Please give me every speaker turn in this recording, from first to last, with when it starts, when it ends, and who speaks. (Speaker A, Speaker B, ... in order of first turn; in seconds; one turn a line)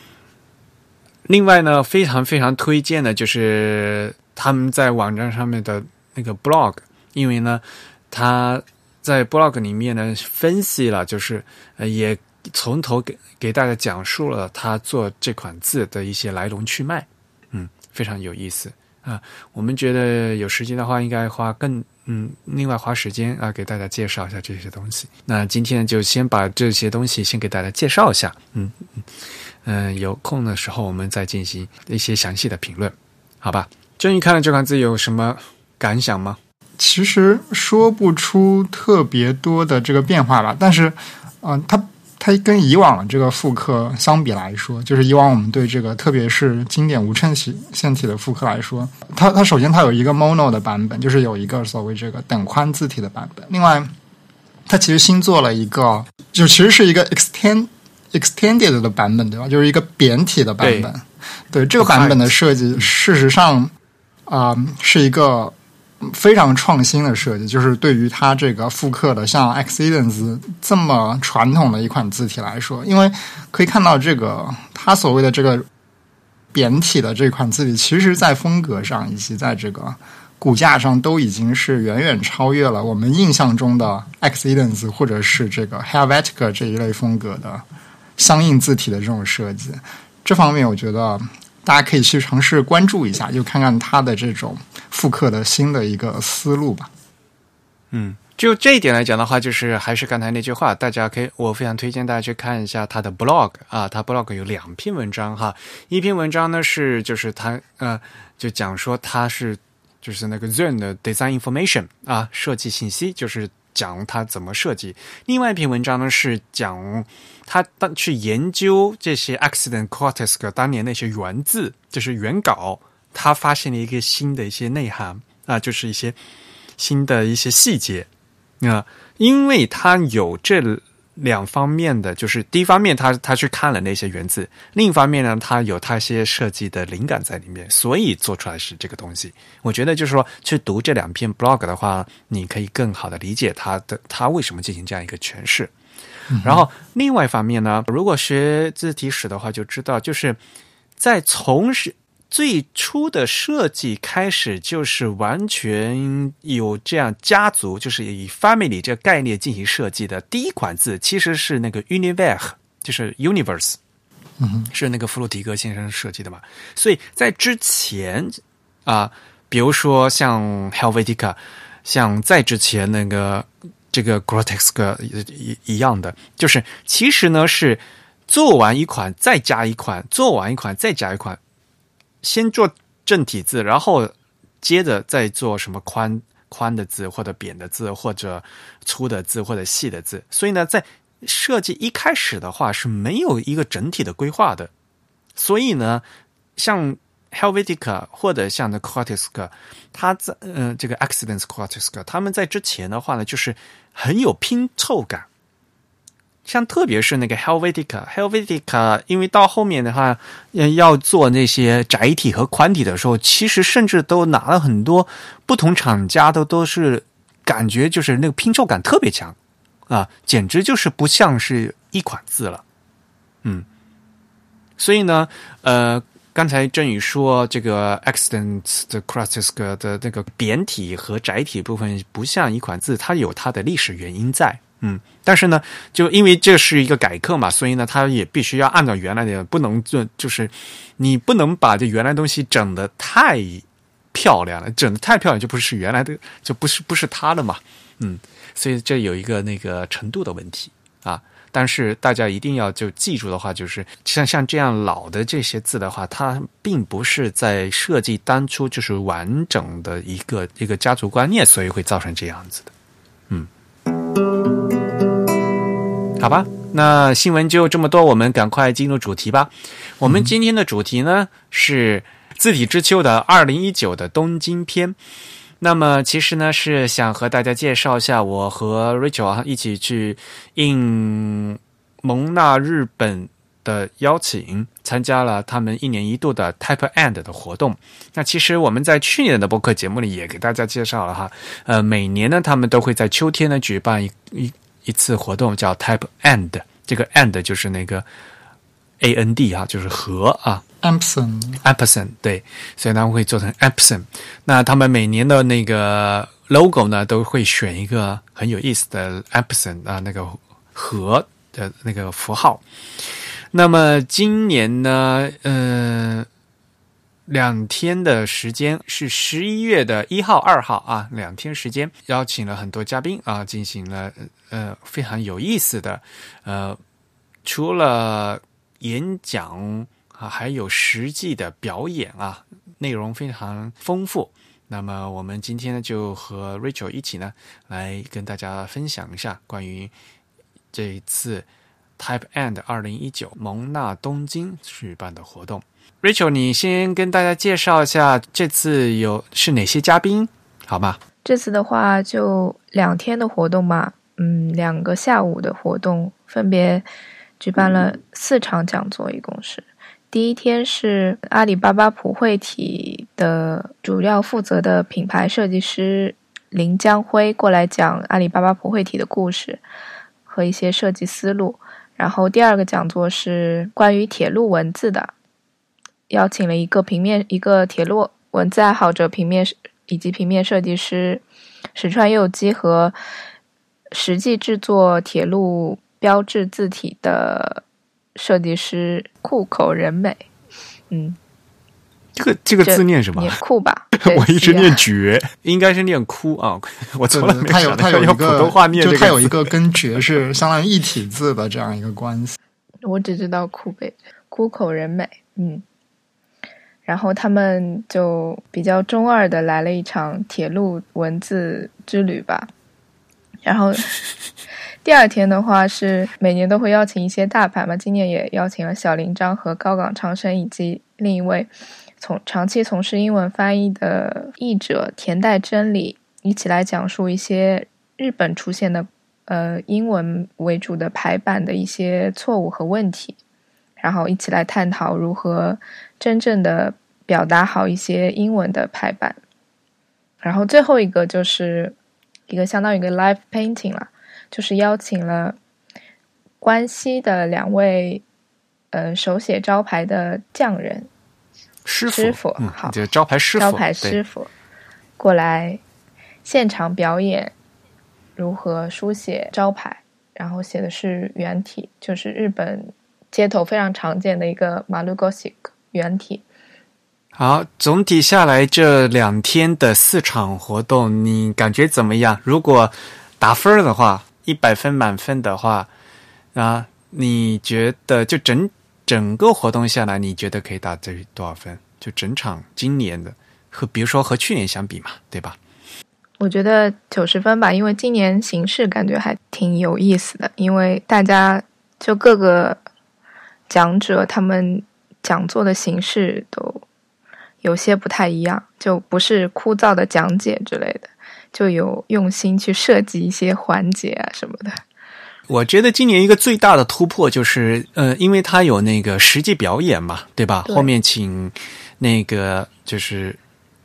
Speaker A: 1.3-28.8
Speaker A: 29.6-36.4
Speaker B: 36.8-53.9
Speaker B: 54.7-63.7
Speaker A: 60.6-60.9
Speaker A: 61.8-62.9
Speaker B: 64.3-75.7
Speaker B: 76.5-87.6
Speaker B: 88.2-96.9
Speaker A: 97.9-126.2
Speaker A: 126.8-128.1
Speaker A: 128.6-145.7
Speaker B: 146.3-146.6
Speaker A: 146.4-150.4
Speaker A: 151.0-163.8
Speaker B: 164.4-164.7
Speaker A: 164.7-181.4
Speaker A: 182.2-194.7
Speaker A: 195.3-196.0
Speaker A: 196.6-205.2
Speaker A: 206.4-219.3
Speaker A: 219.9-222.6
Speaker A: 224.8-262.7
Speaker A: 266.2-275.0
Speaker A: 275.6-298.0
Speaker A: 299.0-300.6
Speaker B: 300.8-301.6
Speaker A: 301.6-316.3
Speaker A: 317.3-326.8
Speaker A: 327.4-339.9
Speaker A: 340.7-341.5
Speaker A: 342.0-351.0
Speaker C: 351.2-356.9
Speaker C: 357.4-369.6
Speaker C: 370.3-375.1
Speaker C: 376.1-381.2
Speaker C: 381.7-382.9
Speaker C: 383.9-387.6
Speaker C: 388.1-390.2
Speaker C: 390.9-391.2
Speaker A: 392.1-393.4
Speaker C: 392.6-394.8
Speaker A: 393.9-399.5
Speaker B: 397.1-402.4
Speaker C: 402.8-405.6
Speaker C: 406.9-412.5
Speaker C: 413.4-413.9
Speaker C: 414.8-433.2
Speaker C: 433.8-439.2
Speaker C: 440.2-441.7
Speaker C: 442.3-445.4
Speaker C: 446.4-448.0
Speaker C: 448.7-450.9
Speaker A: 451.7-454.0
Speaker C: 451.9-452.8
Speaker C: 453.4-454.3
Speaker C: 455.0-455.6
Speaker C: 456.2-457.3
Speaker C: 458.2-466.2
Speaker A: 467.2-475.7
Speaker A: 476.3-485.4
Speaker C: 486.2-492.6
Speaker C: 493.5-496.6
Speaker C: 497.4-504.6
Speaker A: 505.3-513.2
Speaker C: 510.4-510.7